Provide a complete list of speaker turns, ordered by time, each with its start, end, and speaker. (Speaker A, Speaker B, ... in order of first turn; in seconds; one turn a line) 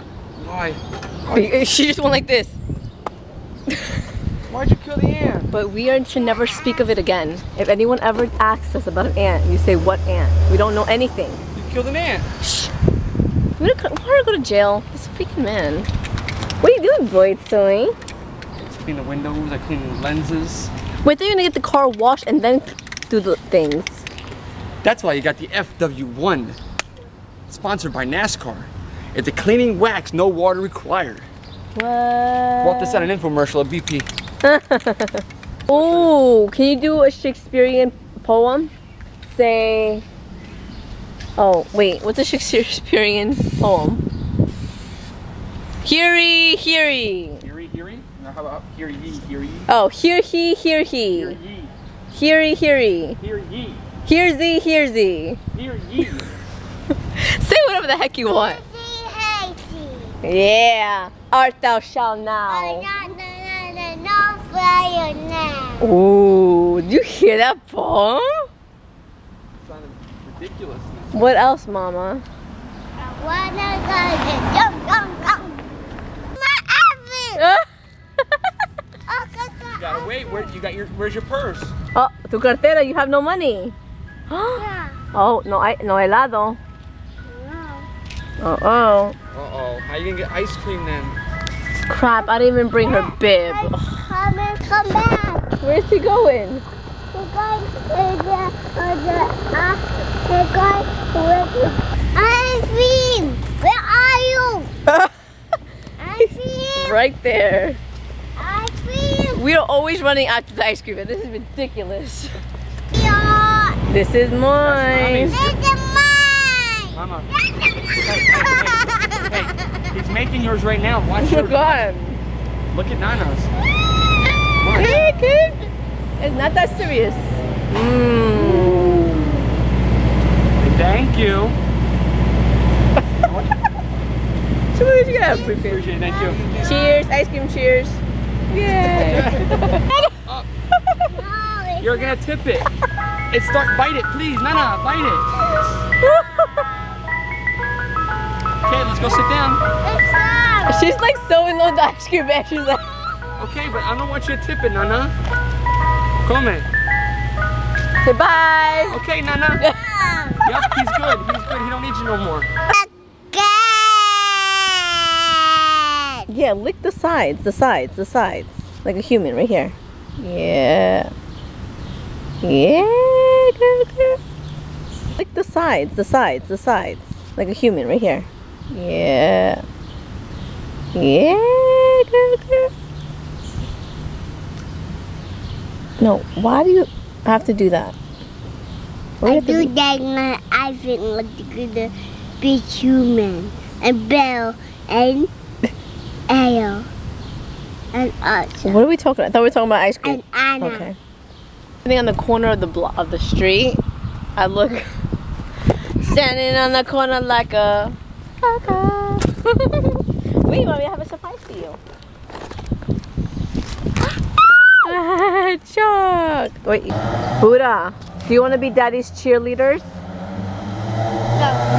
Speaker A: 0.3-1.6
Speaker B: 1.2-2.5
Speaker A: 4.5-5.5
Speaker B: 5.5-11.4
Speaker A: 11.5-12.3
Speaker B: 12.4-12.7
Speaker B: 13.6-15.9
Speaker B: 16.6-17.9
Speaker A: 18.6-20.7
Speaker B: 21.0-24.0
Speaker A: 24.8-26.6
Speaker A: 27.5-31.3
Speaker B: 31.7-33.1
Speaker A: 32.6-34.1
Speaker B: 34.4-38.7
Speaker A: 35.7-36.1
Speaker B: 39.3-40.0
Speaker B: 41.4-44.0
Speaker B: 45.8-47.4
Speaker A: 47.4-49.6
Speaker B: 49.7-51.4
Speaker A: 51.1-51.7
Speaker B: 52.1-53.2
Speaker A: 53.2-53.8
Speaker B: 54.0-55.4
Speaker A: 55.5-56.4
Speaker B: 57.1-58.6
Speaker C: 58.2-60.2
Speaker B: 60.2-62.9
Speaker C: 62.5-65.9
Speaker B: 65.8-68.5
Speaker A: 69.6-71.2
Speaker B: 71.1-72.2
Speaker C: 73.2-75.6
Speaker C: 76.3-77.4
Speaker B: 77.4-77.7
Speaker C: 79.1-80.5
Speaker A: 79.7-81.7
Speaker B: 81.9-83.8
Speaker B: 84.3-86.6
Speaker C: 84.5-85.0
Speaker C: 87.2-87.9
Speaker B: 88.4-89.2
Speaker A: 89.3-91.2
Speaker B: 91.9-94.0
Speaker C: 92.2-95.5
Speaker B: 95.6-96.6
Speaker C: 97.1-104.7
Speaker B: 104.9-105.1
Speaker C: 106.0-107.0
Speaker B: 106.2-107.8
Speaker C: 108.4-109.4
Speaker B: 109.4-112.4
Speaker C: 112.9-113.8
Speaker B: 113.9-115.4
Speaker A: 114.6-115.6
Speaker C: 115.3-119.4
Speaker A: 116.9-117.3
Speaker A: 118.0-121.8
Speaker B: 121.2-122.2
Speaker A: 122.7-123.5
Speaker A: 124.6-125.0
Speaker B: 124.7-125.7
Speaker B: 126.2-129.4
Speaker A: 130.6-131.6
Speaker A: 133.2-133.5
Speaker B: 134.7-135.8
Speaker A: 135.5-136.6
Speaker C: 136.0-137.0
Speaker B: 136.6-140.1
Speaker A: 138.8-139.7
Speaker C: 141.1-142.2
Speaker A: 141.8-142.7
Speaker A: 143.3-145.3
Speaker B: 146.0-146.7
Speaker C: 146.4-146.8
Speaker A: 148.6-149.6
Speaker C: 149.8-150.8
Speaker B: 150.7-152.8
Speaker A: 153.4-155.1
Speaker A: 156.2-156.7
Speaker B: 158.0-159.0
Speaker A: 158.9-159.7
Speaker C: 159.6-160.7
Speaker A: 160.4-162.5
Speaker C: 162.7-166.3
Speaker B: 166.3-171.1
Speaker B: 172.4-174.2
Speaker B: 175.1-179.6
Speaker B: 180.9-182.7
Speaker B: 186.0-187.9
Speaker B: 189.2-189.7
Speaker C: 189.2-195.3
Speaker C: 196.3-196.9
Speaker C: 197.9-198.8
Speaker B: 198.6-201.0
Speaker C: 200.0-200.9
Speaker B: 201.8-203.8
Speaker B: 204.3-204.9
Speaker B: 206.0-211.8
Speaker B: 214.8-219.8
Speaker C: 221.3-221.6